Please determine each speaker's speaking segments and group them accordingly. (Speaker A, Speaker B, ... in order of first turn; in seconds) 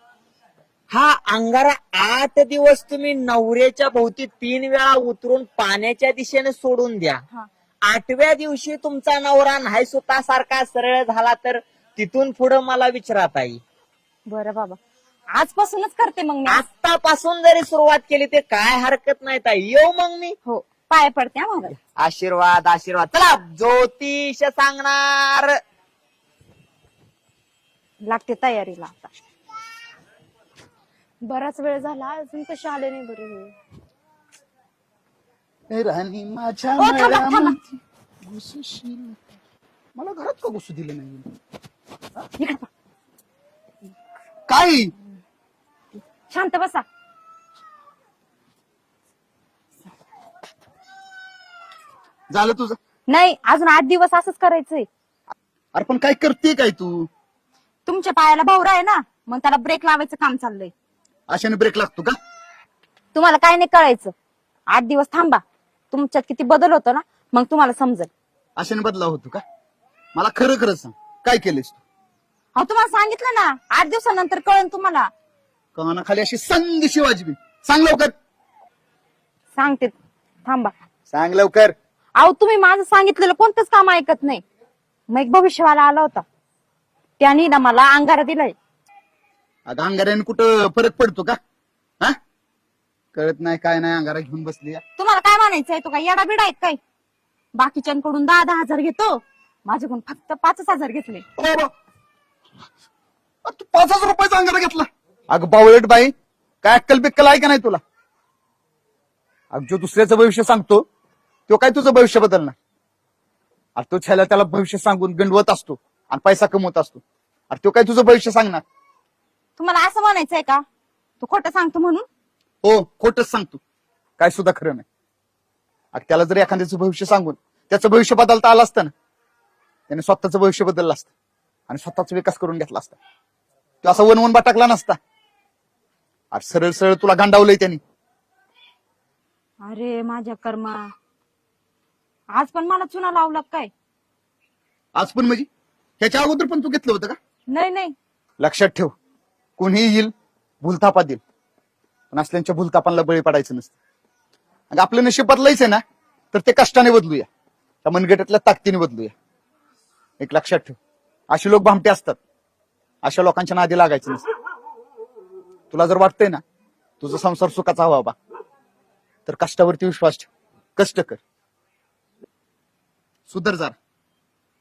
Speaker A: 0.9-7.2, 7.9-13.6, 16.5-20.4, 22.0-25.6
Speaker B: 14.3-14.8, 15.3-16.6, 20.5-21.8, 28.0-29.1, 31.2-33.5, 36.8-37.6, 42.4-42.7, 46.3-46.9, 53.1-54.9, 57.9-60.7, 63.1-64.1, 64.7-68.1, 72.6-75.1, 79.6-80.7, 82.2-84.4, 85.1-86.2, 87.2-88.5, 95.0-96.8, 97.6-101.2, 119.6-120.6, 121.2-122.1, 139.6-140.9, 142.3-143.7, 147.5-147.9
Speaker C: 35.7-39.2, 40.0-41.3, 44.5-44.9, 52.3-52.8, 55.8-57.1, 61.3-62.1, 68.6-69.4, 70.2-71.8, 75.8-78.1, 81.1-81.8, 89.7-91.4, 93.1-94.8, 101.4-101.7, 103.5-107.8, 109.5-110.9, 111.5-112.5, 113.8-118.6, 122.6-123.6, 124.2-124.8, 125.9-128.9, 129.9-131.1, 131.7-133.0, 133.8-135.0, 136.3-137.8, 145.0-145.5, 146.0-147.2, 148.4-148.9, 149.6-151.2, 152.1-153.8, 154.7-155.8, 156.3-157.3, 157.8-159.1, 160.2-160.8, 161.3-162.2, 163.0-164.2, 165.7-166.4, 167.0-168.2, 169.3-171.2, 173.3-173.8